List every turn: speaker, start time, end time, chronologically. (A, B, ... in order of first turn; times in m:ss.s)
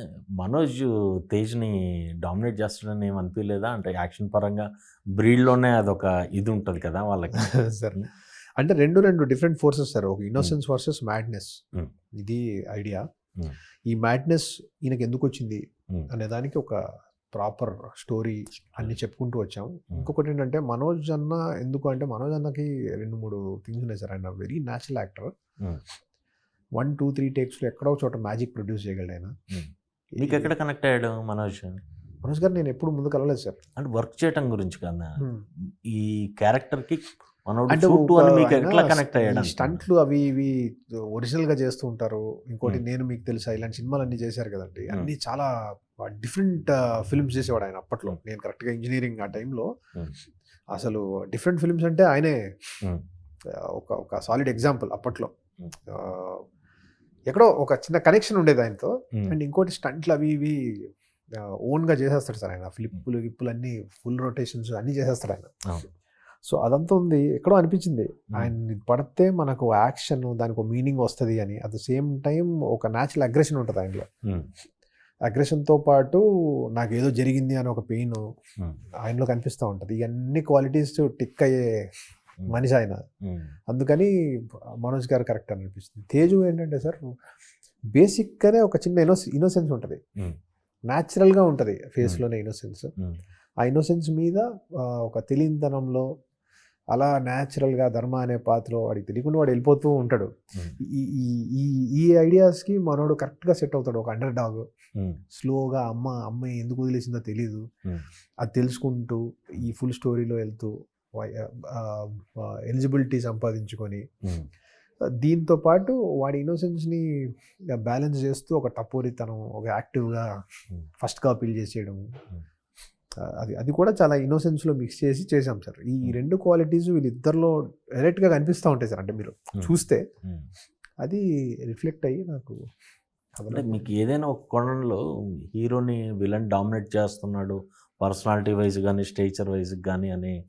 0:00.4-0:04.6 A
0:05.2-0:08.0 A
0:07.3-0:11.6 B
0:12.2-0:13.0 B
0:13.9-0:16.8 B
0:17.3-0:25.3 B
0:26.8-0:29.3 B
0:30.2-0:30.5 B
0:30.2-0:31.8 A
0:32.2-0:33.6 B
0:33.8-0:39.8 A
0:35.2-0:35.4 B
0:37.7-0:40.6 B
0:41.1-0:45.5 B
0:46.0-0:49.7 B
0:50.7-0:52.7 B
0:53.6-0:55.3 B
0:55.9-0:56.4 B
0:57.3-1:00.6 B
1:01.4-1:05.5 B
1:06.5-1:14.1 B
1:15.2-1:16.2 B
1:16.7-1:18.2 B
1:19.0-1:21.6 B
1:22.5-1:23.0 B
1:23.2-1:23.5 A
1:23.7-1:24.1 B
1:24.8-1:27.0 B
1:27.9-1:30.0 B
1:30.9-1:32.9 B
1:33.6-1:36.1 B
1:36.9-1:44.6 B
1:45.3-1:47.6 B
1:48.4-1:54.0 B
1:55.2-2:00.3 B
2:01.0-2:02.0 B
2:03.2-2:10.0 B
2:11.0-2:12.6 B
2:13.4-2:13.9 B
2:13.5-2:15.0 A
2:15.5-2:20.3 A